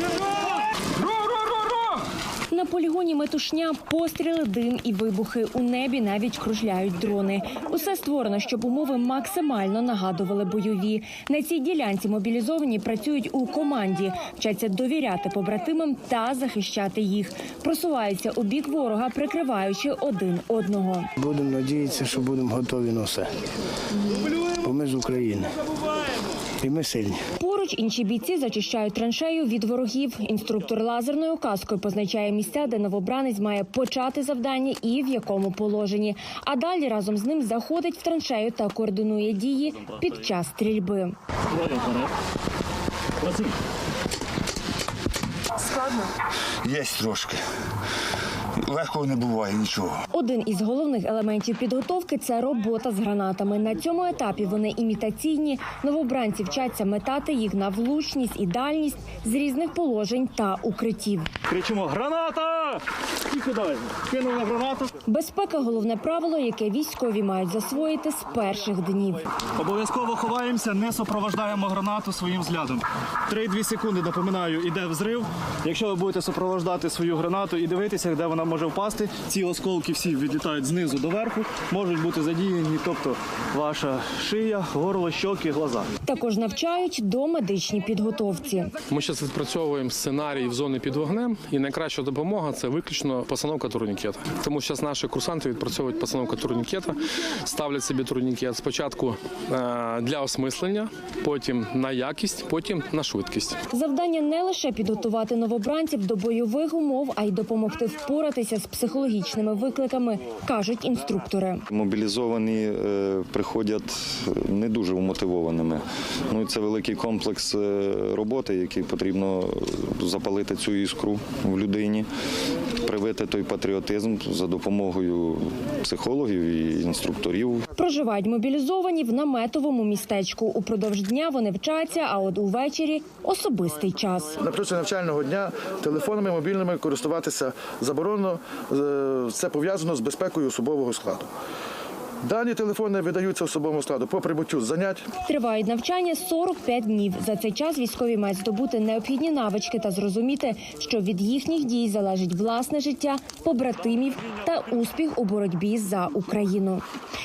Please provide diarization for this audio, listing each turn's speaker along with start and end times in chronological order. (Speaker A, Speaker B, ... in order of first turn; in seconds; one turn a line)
Speaker A: 2.5-21.1
Speaker B: 21.2-23.3
Speaker B: 24.5-25.6
Speaker B: 26.6-27.2
Speaker A: 27.4-41.1
Speaker C: 46.6-47.4
Speaker C: 48.6-50.0
Speaker A: 50.1-61.3
Speaker D: 61.5-64.9
Speaker A: 65.0-69.2
Speaker D: 69.6-85.9
Speaker A: 86.0-88.7
Speaker E: 88.9-103.6
Speaker A: 103.7-111.7
Speaker F: 111.7-122.1
Speaker F: 122.8-127.7
Speaker A: 127.8-134.3
Speaker G: 134.4-141.3
Speaker G: 142.2-145.1
Speaker A: 145.2-156.8